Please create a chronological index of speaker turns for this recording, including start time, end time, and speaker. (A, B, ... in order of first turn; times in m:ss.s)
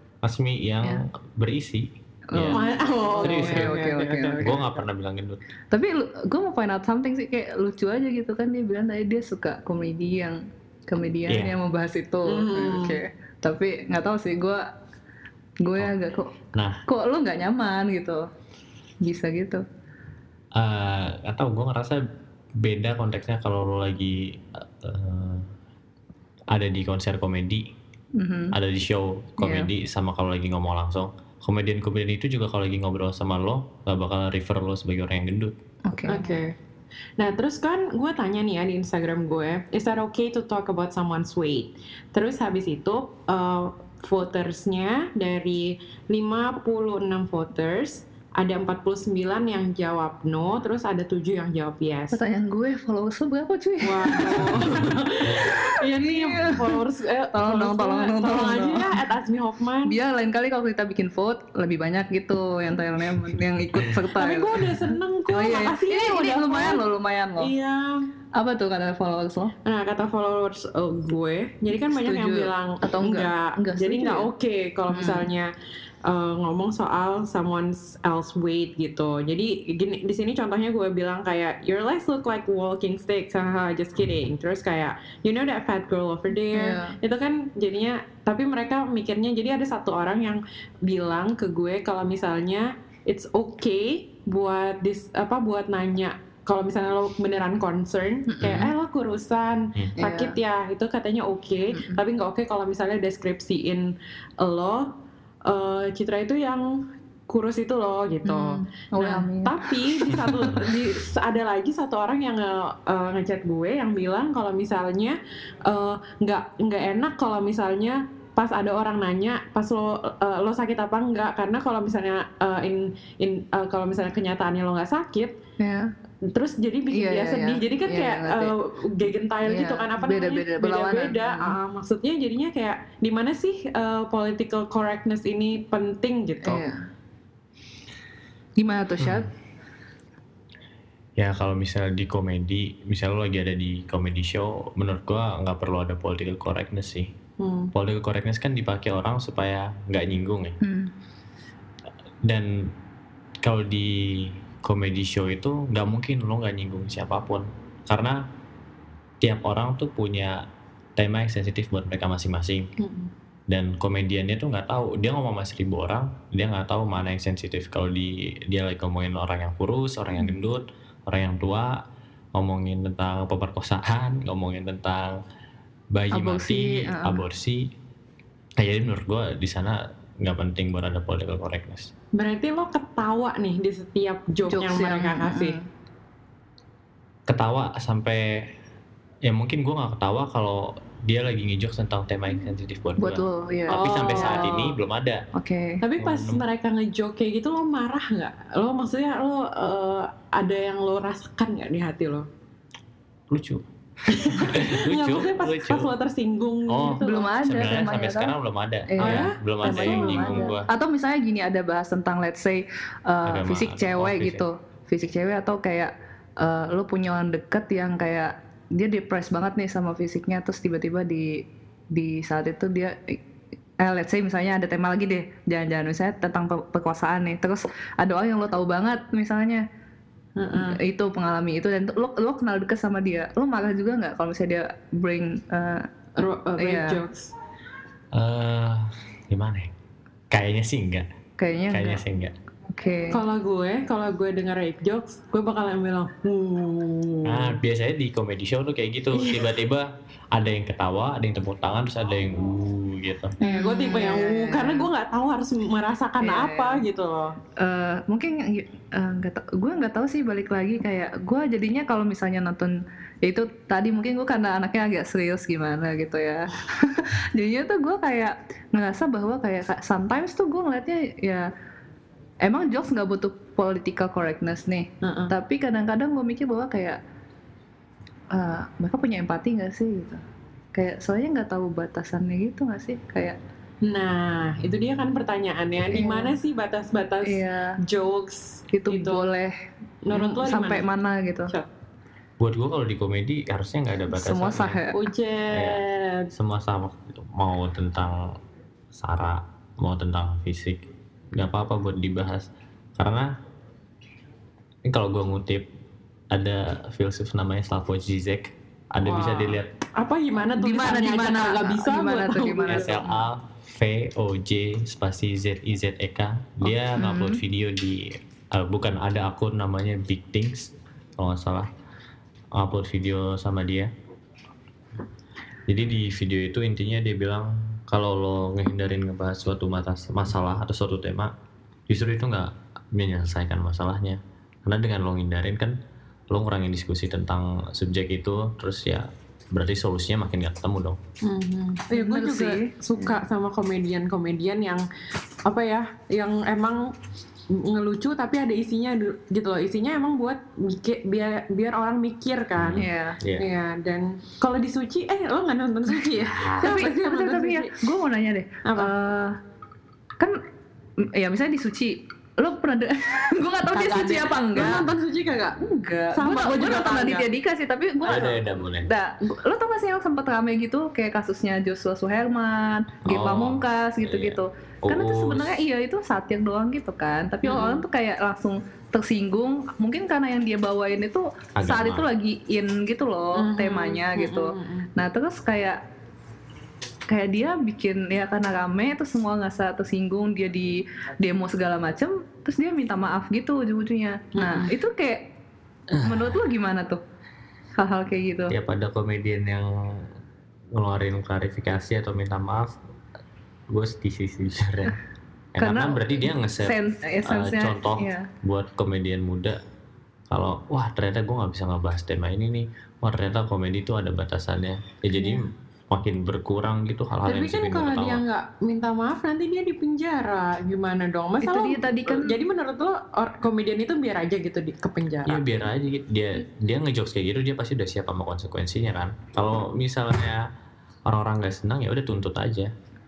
0:00.2-0:02.6 A
0:02.3-0:04.7 B
0:02.5-0:04.7 C
0:03.2-0:03.8 A
0:04.4-0:05.4 A
0:05.7-0:14.7 B
0:11.3-0:11.5 A
0:12.2-0:13.0 C
0:15.6-0:16.3 B
0:16.5-0:16.8 A
0:16.9-0:18.3 B
0:19.0-0:19.6 B
0:20.6-0:22.0 A
0:22.6-0:25.5 A
0:26.5-0:27.7 A
0:28.2-0:28.6 B
0:28.5-0:35.6 A
0:29.4-0:29.7 B
0:35.9-0:36.4 B
0:36.1-0:36.5 C
0:37.2-0:52.2 C
0:52.1-0:56.8 B
0:53.8-1:00.0 C
0:54.5-0:55.5 A
0:57.3-0:59.0 B
0:59.9-1:07.5 B
1:04.1-1:06.8 C
1:07.4-1:08.1 C
1:08.3-1:09.5 B
1:09.6-1:15.5 C
1:11.8-1:14.3 B
1:14.9-1:15.3 B
1:16.0-1:44.9 C
1:26.5-1:27.0 B
1:38.3-1:38.7 B
1:38.4-1:38.7 A
1:40.0-1:40.4 B
1:41.7-1:42.0 B
1:45.4-2:05.4 C
1:48.2-1:50.6 B
2:05.6-2:05.9 B
2:06.3-2:16.6 C
2:06.9-2:08.5 B
2:09.4-2:11.6 B
2:16.4-2:16.8 B
2:18.6-2:19.3 B
2:19.0-2:19.2 A
2:21.2-2:27.1 A
2:27.4-2:27.7 C
2:27.7-2:30.6 A
2:30.6-2:30.9 B
2:32.2-2:32.7 A
2:33.4-2:38.2 A
2:39.2-2:40.4 A
2:41.0-2:42.7 A
2:42.8-2:43.1 C
2:43.5-2:51.8 A
2:52.3-2:55.2 A
2:55.9-2:57.7 A
2:56.1-2:57.2 B
2:58.6-3:01.9 A
3:02.1-3:05.6 C
3:04.5-3:05.7 B
3:07.3-3:08.5 A
3:09.2-3:15.2 A
3:13.0-3:14.6 B
3:13.7-3:14.7 C
3:15.3-3:15.8 B
3:15.8-3:22.3 C
3:16.0-3:16.4 A
3:23.3-3:25.9 A
3:24.1-3:27.3 C
3:26.7-3:30.7 A
3:27.0-3:28.3 B
3:28.9-3:43.2 B
3:29.0-3:30.5 C
3:33.2-3:34.4 A
3:43.8-3:49.6 B
3:50.4-3:50.8 C
3:50.6-3:55.9 B
3:56.2-3:57.3 C
3:56.6-3:57.0 B
3:58.1-3:59.7 A
4:00.3-4:01.0 A
4:01.4-4:02.0 B
4:01.7-4:02.3 A
4:02.7-4:03.2 B
4:03.1-4:07.6 C
4:07.2-4:13.3 A
4:09.1-4:09.5 C
4:13.4-4:14.9 B
4:13.4-4:17.4 C
4:16.2-4:16.8 B
4:17.6-4:31.5 B
4:32.4-4:37.0 B
4:35.0-4:35.3 C
4:38.3-4:40.2 B
4:40.7-4:43.4 B
4:43.8-4:49.2 C
4:45.9-4:46.4 B
4:47.2-4:47.8 B
4:48.7-4:49.5 B
4:50.0-4:50.9 C
4:50.1-4:51.5 B
4:52.4-4:54.8 A
4:54.1-4:55.0 B
4:54.9-4:56.3 C
4:55.5-4:55.8 A
4:56.3-4:58.4 A
4:58.9-5:03.3 A
5:04.9-5:05.7 A
5:06.3-5:09.7 A
5:09.0-5:13.0 C
5:10.6-5:13.2 B
5:12.7-5:21.7 A
5:16.9-5:17.4 B
5:22.5-5:23.9 A
5:25.7-5:31.3 A
5:31.9-5:35.8 A
5:36.3-5:41.0 A
5:41.2-5:44.8 C
5:41.9-5:43.2 B
5:45.4-5:46.9 C
5:47.5-5:52.8 C
5:52.6-5:53.5 A
5:52.8-5:53.2 B
5:53.4-5:57.7 C
5:56.2-5:56.7 A
5:56.6-5:59.4 B
5:58.6-5:58.9 C
6:01.0-6:04.9 B
6:03.7-6:05.6 C
6:05.6-6:25.8 B
6:06.1-6:07.3 C
6:08.0-6:08.9 A
6:13.0-6:15.5 A
6:17.4-6:17.8 C
6:21.6-6:22.1 A
6:23.3-6:24.9 C
6:27.1-6:35.3 B
6:34.4-6:34.7 C
6:35.9-6:36.4 A
6:36.0-6:37.0 B
6:37.8-6:38.5 B
6:38.5-6:40.1 A
6:40.7-6:42.8 A
6:43.7-6:45.0 A
6:45.5-6:49.6 A
6:45.6-6:48.3 B
6:50.3-6:58.2 A
6:57.2-7:05.4 C
7:01.4-7:02.3 B
7:05.2-7:10.4 A
7:11.1-7:12.7 A